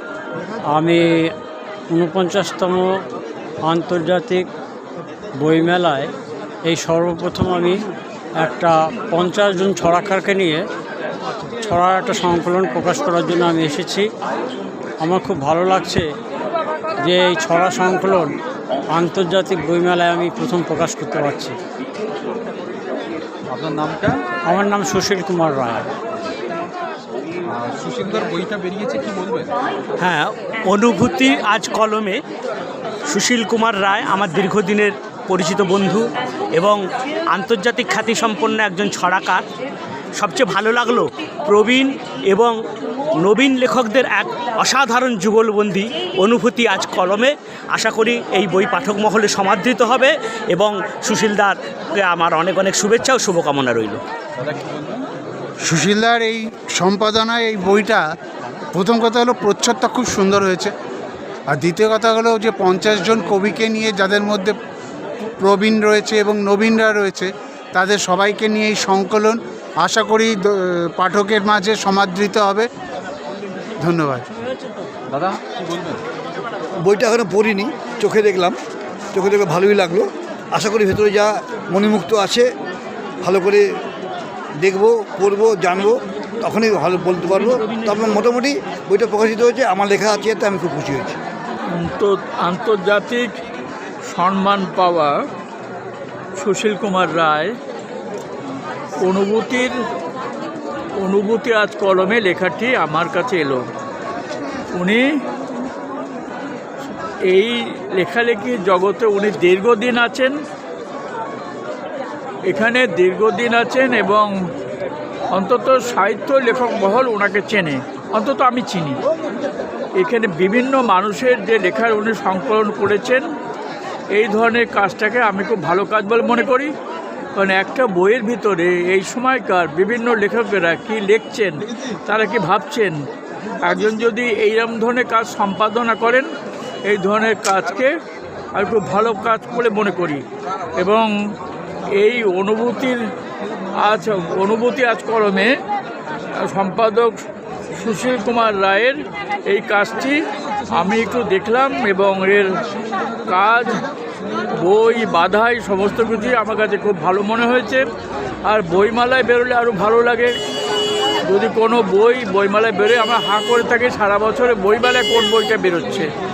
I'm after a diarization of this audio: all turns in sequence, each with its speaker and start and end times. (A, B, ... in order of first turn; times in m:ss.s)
0:00.7-0:01.3 A
0:01.9-0:03.0 A
0:03.6-0:04.5 A
0:05.4-0:06.1 A
0:06.7-0:07.8 A
0:08.4-0:10.6 A
0:11.6-0:14.1 A
0:15.0-0:16.0 A
0:17.0-0:18.4 A
0:18.9-0:21.6 A
0:23.5-0:24.2 B
0:24.5-0:25.8 A
0:27.6-0:29.5 B
0:30.0-0:32.2 C
0:33.1-0:36.0 C
0:37.3-0:39.4 C
0:40.2-0:42.6 C
0:43.2-0:54.0 C
0:55.6-0:58.0 D
0:58.7-1:00.7 D
1:01.5-1:04.6 D
1:05.4-1:12.7 D
1:13.8-1:14.2 D
1:15.1-1:16.0 B
1:16.8-1:18.6 E
1:19.1-1:22.5 E
1:23.2-1:23.6 E
1:24.6-1:31.2 E
1:31.7-1:33.3 F
1:34.1-1:35.2 F
1:36.4-1:37.5 F
1:39.0-1:39.7 F
1:41.0-1:43.6 F
1:44.7-1:45.0 F
1:47.3-1:50.3 F
1:52.5-1:54.3 F
1:55.3-1:59.0 F
2:00.0-2:03.2 F
2:04.1-2:06.7 F
2:07.4-2:13.0 F
2:13.6-2:16.3 F
2:16.9-2:17.9 F
2:18.5-2:20.2 F
2:20.8-2:21.1 F
2:22.0-2:23.0 F
2:23.8-2:25.5 F
2:26.4-2:27.2 F
2:27.7-2:30.2 F
2:30.7-2:32.6 F
2:33.3-2:33.8 F
2:34.5-2:37.8 F
2:38.4-2:40.3 F
2:41.3-2:46.1 F